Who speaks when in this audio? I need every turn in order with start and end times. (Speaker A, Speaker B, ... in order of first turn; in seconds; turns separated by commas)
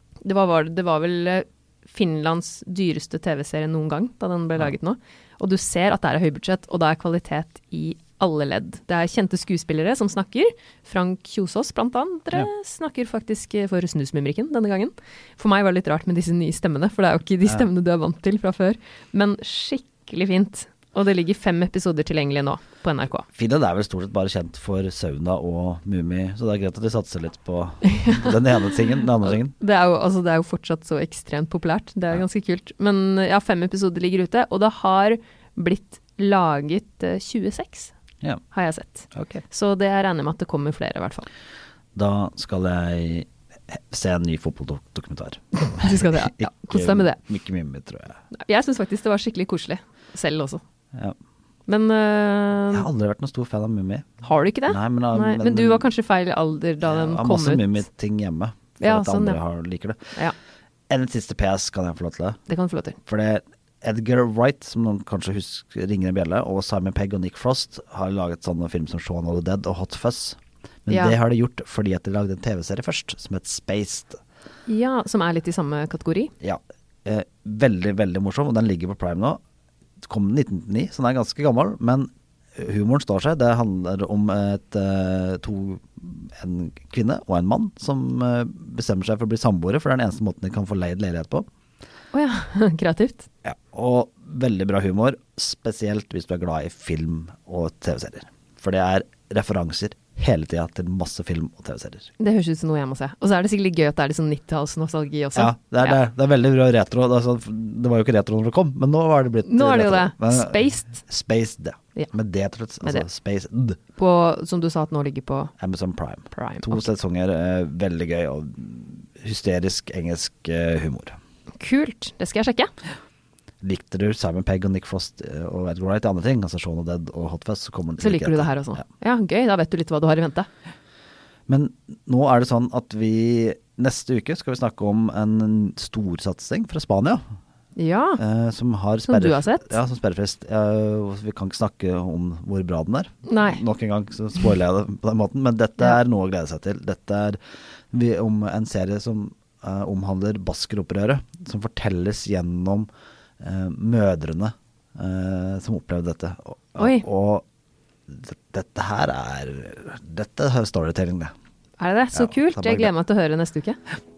Speaker A: 0.2-23.3, Speaker B: 23.3-29.6, Speaker A: 27.9-28.4, Speaker A: 29.3-37.9, Speaker A: 38.5-41.3, Speaker B: 39.1-39.4, Speaker B: 42.0-48.2, Speaker A: 45.8-47.2, Speaker A: 48.3-50.6, Speaker A: 51.7-52.9, Speaker B: 52.7-55.9, Speaker A: 54.2-57.9, Speaker B: 56.8-60.1, Speaker A: 58.8-59.4, Speaker B: 60.9-62.4, Speaker A: 62.5-63.0, Speaker B: 63.1-74.2, Speaker A: 70.9-71.2, Speaker A: 74.7-76.3, Speaker B: 76.4-79.4, Speaker B: 80.0-91.5, Speaker A: 92.1-93.3, Speaker B: 93.5-102.1, Speaker A: 102.2-106.0, Speaker B: 105.3-113.8, Speaker A: 109.5-110.9, Speaker A: 114.0-115.5, Speaker B: 115.6-121.2, Speaker A: 116.3-116.8, Speaker A: 121.6-122.8, Speaker B: 123.6-128.8, Speaker A: 128.0-130.5, Speaker B: 131.5-137.2, Speaker A: 137.8-138.2, Speaker B: 138.2-147.4, Speaker A: 139.1-139.8, Speaker A: 143.3-143.6, Speaker B: 147.9-152.9, Speaker B: 153.4-157.4, Speaker A: 156.8-157.1, Speaker B: 158.1-161.3, Speaker A: 161.8-163.8, Speaker B: 162.1-162.9